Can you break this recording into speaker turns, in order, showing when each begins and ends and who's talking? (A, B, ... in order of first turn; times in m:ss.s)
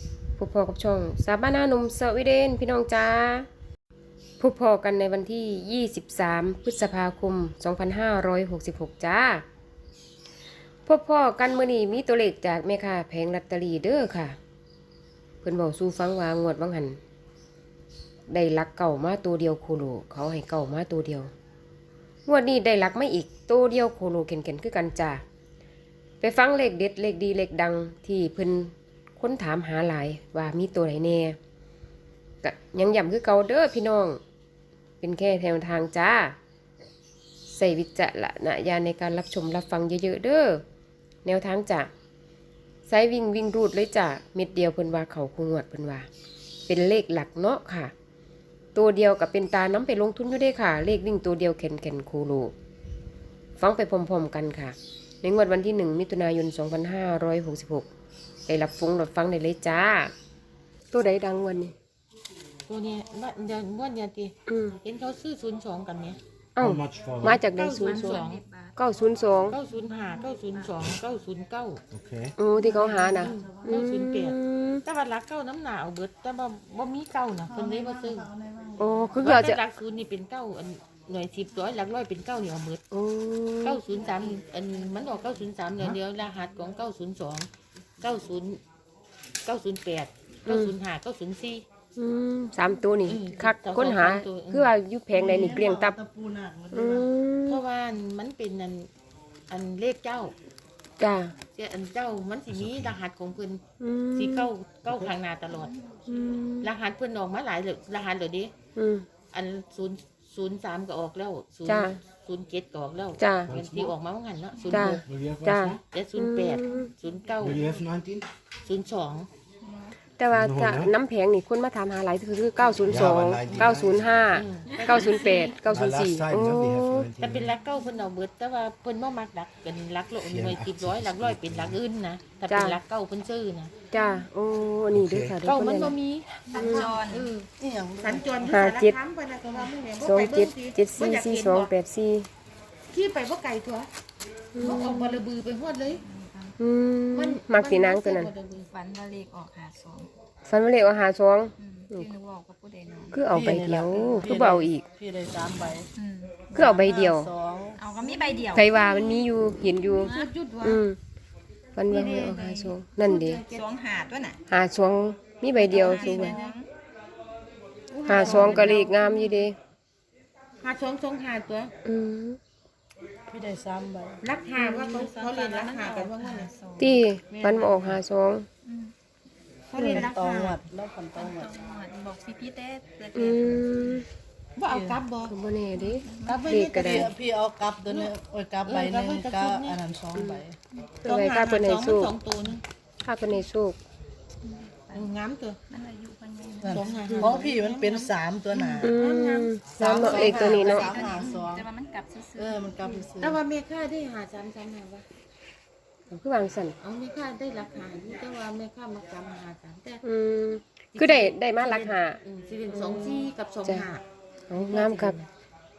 0:00.4-0:03.5 A
0:04.4-0:09.4 A
0:10.9-0:14.4 A
0:15.4-0:17.0 A
0:18.3-0:21.3 A
0:22.3-0:25.2 A
0:26.2-0:31.4 A
0:32.4-0:34.2 A
0:35.0-0:36.4 A
0:37.5-0:40.6 A
0:41.2-0:41.9 A
0:42.9-0:46.1 A
0:46.7-0:47.9 A
0:48.8-0:52.5 A
0:53.6-0:57.9 A
0:58.5-1:00.1 A
1:00.9-1:01.7 A
1:02.7-1:06.2 B
1:04.5-1:04.8 A
1:06.6-1:08.2 A
1:06.6-1:07.4 C
1:07.5-1:08.4 B
1:07.7-1:08.8 D
1:08.8-1:09.6 A
1:09.5-1:11.8 B
1:09.7-1:10.7 D
1:11.9-1:12.4 C
1:12.4-1:14.8 A
1:12.6-1:18.3 B
1:12.6-1:13.8 E
1:17.5-1:19.3 E
1:18.8-1:19.6 A
1:19.2-1:22.8 B
1:22.9-1:23.8 A
1:23.6-1:27.5 B
1:28.0-1:28.6 B
1:29.4-1:31.6 B
1:30.5-1:30.7 A
1:32.0-1:36.0 A
1:33.1-1:34.7 B
1:35.1-1:37.1 E
1:36.7-1:37.6 A
1:37.5-1:38.9 B
1:39.5-1:40.3 B
1:41.0-1:41.3 A
1:41.5-1:43.6 B
1:42.5-1:43.0 C
1:43.8-1:44.5 A
1:44.2-1:45.8 B
1:45.6-1:46.0 D
1:46.1-1:46.7 A
1:46.6-1:48.5 B
1:48.8-1:49.1 A
1:49.3-1:55.0 B
1:51.7-1:52.0 A
1:53.2-1:53.5 A
1:53.5-1:53.9 C
1:54.6-1:54.9 D
1:54.7-1:56.9 A
1:54.7-1:55.8 C
1:55.9-1:57.6 B
1:56.7-1:57.8 D
1:57.4-1:58.3 C
1:58.6-1:59.3 B
1:59.6-2:00.0 D
2:00.2-2:07.1 A
2:00.3-2:00.9 C
2:02.8-2:04.3 C
2:03.4-2:03.8 B
2:04.3-2:05.6 B
2:05.7-2:07.5 C
2:07.2-2:13.7 B
2:10.2-2:11.8 C
2:12.5-2:12.8 A
2:13.9-2:16.0 A
2:14.9-2:15.4 C
2:15.4-2:17.5 B
2:16.5-2:17.3 D
2:16.5-2:16.9 A
2:17.6-2:18.3 E
2:18.0-2:21.7 B
2:18.4-2:19.0 A
2:20.0-2:22.3 A
2:22.9-2:23.9 B
2:24.6-2:25.2 A
2:24.6-2:26.0 B
2:24.6-2:25.2 D
2:25.8-2:26.6 D
2:26.6-2:28.3 A
2:27.1-2:28.7 B
2:28.6-2:30.1 D
2:30.4-2:32.1 A
2:31.6-2:33.2 D
2:33.1-2:34.8 A
2:33.3-2:35.9 E
2:36.0-2:36.6 D
2:36.5-2:37.3 A
2:36.6-2:38.0 E
2:37.8-2:39.2 D
2:38.0-2:38.5 B
2:38.5-2:41.0 A
2:39.8-2:40.3 D
2:40.0-2:40.8 B
2:41.8-2:43.4 A
2:41.9-2:43.7 B
2:42.2-2:42.7 D
2:43.5-2:44.4 D
2:44.5-2:46.4 A
2:45.6-2:46.6 B
2:45.6-2:46.7 D
2:47.9-2:49.0 B
2:48.1-2:49.6 A
2:48.2-2:49.1 D
2:50.6-2:51.7 B
2:51.8-2:52.4 A
2:53.3-2:54.2 E
2:54.2-2:56.5 B
2:54.6-2:57.0 D
2:56.8-2:58.5 A
2:57.3-2:58.0 E
2:58.6-2:58.9 D
2:59.7-3:00.6 B
2:59.8-3:01.6 E
2:59.8-3:00.0 A
3:01.1-3:04.0 D
3:03.1-3:04.1 A
3:04.6-3:05.4 B
3:04.7-3:05.0 E
3:05.3-3:07.1 A
3:05.7-3:07.0 D
3:06.3-3:06.9 B
3:06.7-3:10.6 E
3:07.8-3:08.1 B
3:08.6-3:09.8 B
3:10.2-3:10.4 A
3:11.0-3:12.1 A
3:11.0-3:12.6 B
3:13.0-3:13.8 A
3:14.4-3:15.1 D
3:14.9-3:15.6 B
3:15.7-3:17.5 D
3:16.6-3:18.9 E
3:16.7-3:21.4 B
3:18.8-3:20.9 A
3:19.8-3:21.7 E
3:20.3-3:22.9 D
3:22.4-3:23.4 E
3:23.2-3:25.1 B
3:26.1-3:26.8 A
3:26.8-3:30.0 B
3:30.0-3:33.9 A
3:30.9-3:35.3 B
3:34.5-3:35.2 A